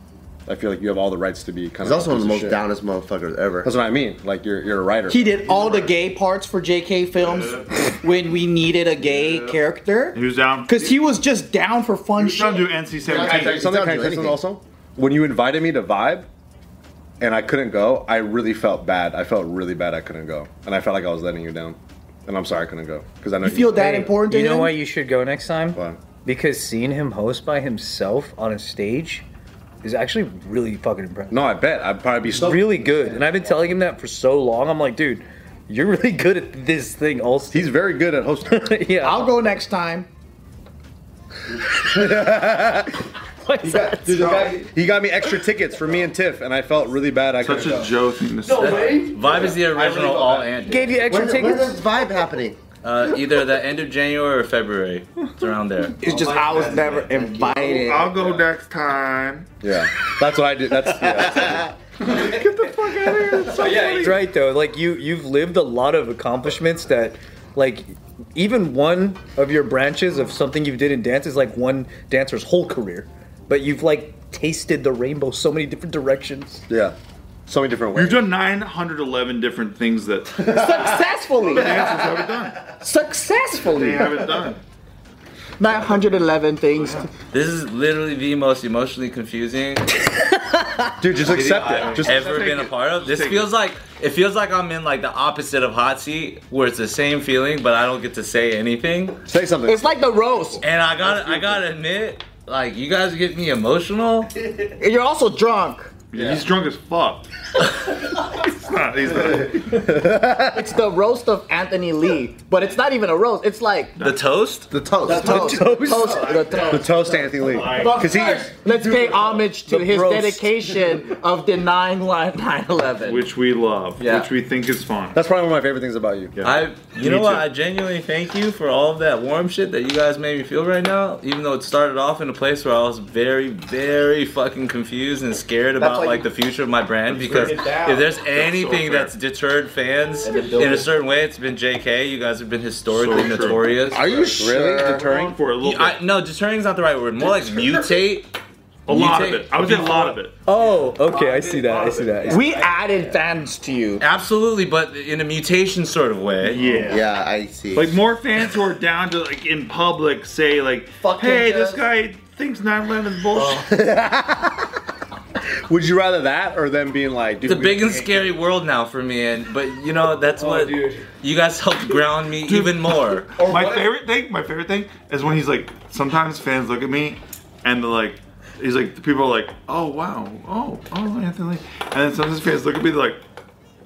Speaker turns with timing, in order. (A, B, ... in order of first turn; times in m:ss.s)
0:00.5-0:02.6 A
0:01.8-0:03.7 B
0:03.6-0:05.9 A
0:05.1-0:12.8 C
0:07.2-0:07.7 D
0:10.1-0:10.9 D
0:12.2-0:13.7 D
0:13.0-0:14.4 B
0:13.0-0:16.3 A
0:17.2-0:24.0 A
0:23.4-0:24.8 C
0:23.7-0:29.2 E
0:25.7-0:26.0 A
0:29.8-0:31.5 E
0:31.3-0:33.2 A
0:32.3-0:37.7 E
0:37.5-0:38.8 A
0:38.5-0:39.4 E
0:39.0-0:40.1 C
0:41.6-0:43.0 A
0:43.4-0:44.6 E
0:43.6-0:47.9 A
0:47.4-0:49.2 D
0:48.5-0:50.9 F
0:49.2-0:50.4 A
0:49.8-0:50.2 D
0:50.7-0:51.8 E
0:51.0-0:52.6 B
0:52.8-0:56.2 F
0:55.9-0:58.3 C
0:56.4-0:56.7 D
0:57.5-0:59.5 D
0:59.6-1:01.7 A
1:02.0-1:04.2 D
1:03.6-1:16.6 E
1:16.7-1:17.0 A
1:17.5-1:18.2 A
1:18.0-1:20.6 D
1:20.4-1:24.5 C
1:21.4-1:22.7 D
1:23.6-1:24.6 D
1:25.6-1:27.1 C
1:26.8-1:27.1 D
1:27.3-1:30.0 F
1:31.0-1:32.4 A
1:31.3-1:33.5 D
1:31.6-1:39.2 F
1:39.3-1:39.8 A
1:39.7-1:40.6 C
1:40.6-1:44.3 F
1:44.7-1:46.0 C
1:46.1-1:49.9 D
1:46.2-1:46.4 A
1:49.7-1:50.8 A
1:50.4-1:54.0 C
1:54.0-1:54.7 F
1:54.7-1:55.9 B
1:55.0-1:56.5 E
1:55.0-2:03.3 C
1:56.2-1:58.1 D
1:56.6-1:59.3 A
1:59.7-2:00.5 E
2:03.1-2:05.2 D
2:04.0-2:04.3 C
2:05.1-2:06.3 A
2:06.4-2:24.0 F
2:07.0-2:07.4 D
2:15.8-2:16.3 C
2:17.1-2:18.1 C
2:17.2-2:19.1 D
2:20.2-2:20.9 C
2:22.9-2:24.2 D
2:23.9-2:25.0 B
2:24.2-2:25.4 A
2:24.8-2:26.0 D
2:25.6-2:28.4 F
2:27.5-2:27.9 C
2:28.9-2:30.2 F
2:28.9-2:30.4 D
2:30.5-2:32.6 E
2:30.5-2:30.9 C
2:31.2-2:32.5 D
2:32.3-2:34.0 C
2:34.0-2:36.6 F
2:36.4-2:37.1 D
2:36.8-2:38.0 B
2:37.7-2:43.7 D
2:41.0-2:41.9 C
2:43.4-2:44.8 A
2:45.7-2:48.1 A
2:47.4-2:53.4 F
2:50.4-2:51.0 E
2:52.4-3:03.2 D
2:53.4-2:53.8 E